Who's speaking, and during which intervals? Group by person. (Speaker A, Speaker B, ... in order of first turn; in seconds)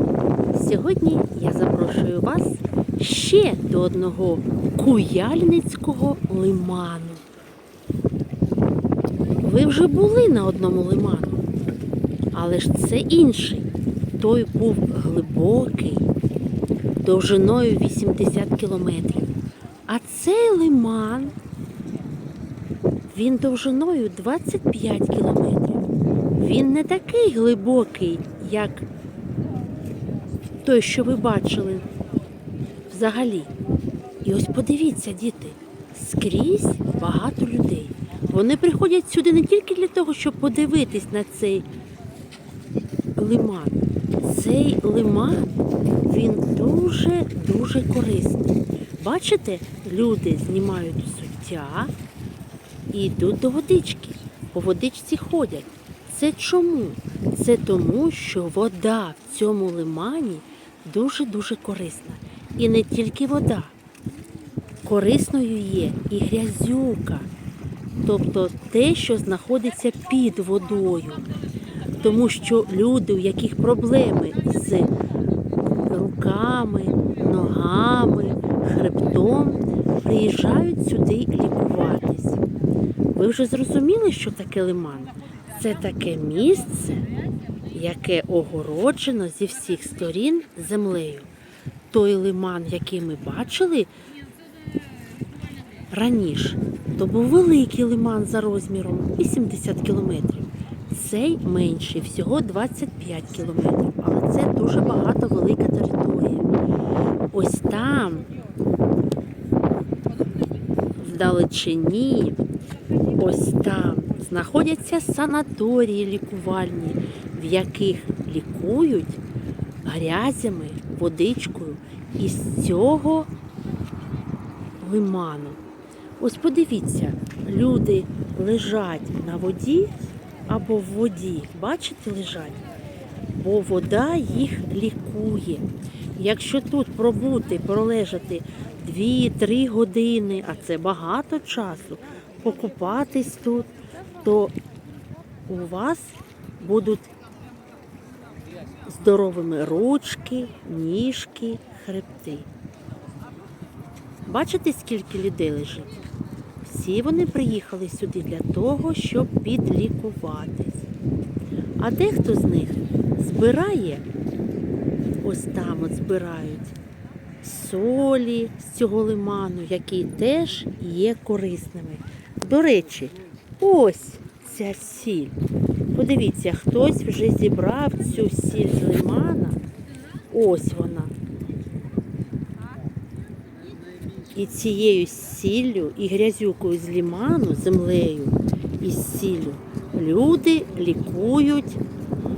Speaker A: 0.5-7.2, 9.4-11.4, 12.3-16.1, 17.0-19.4, 19.9-21.3, 23.1-28.9, 30.6-31.9, 32.9-33.5, 34.2-41.6, 43.1-51.9, 52.9-63.7, 64.8-67.3, 68.0-71.3, 71.9-74.9, 75.8-82.4, 83.1-87.1, 87.7-91.3, 91.9-93.9, 95.9-106.4, 107.3-108.3, 111.0-112.4, 113.2-119.2, 119.8-123.3, 124.8-125.6, 126.2-132.6, 133.4-144.5, 145.5-147.1, 148.8-152.5, 154.2-156.0, 156.6-160.9, 161.8-164.0, 165.2-166.8, 167.4-175.4, 175.9-179.6, 180.3-181.1, 184.3-191.8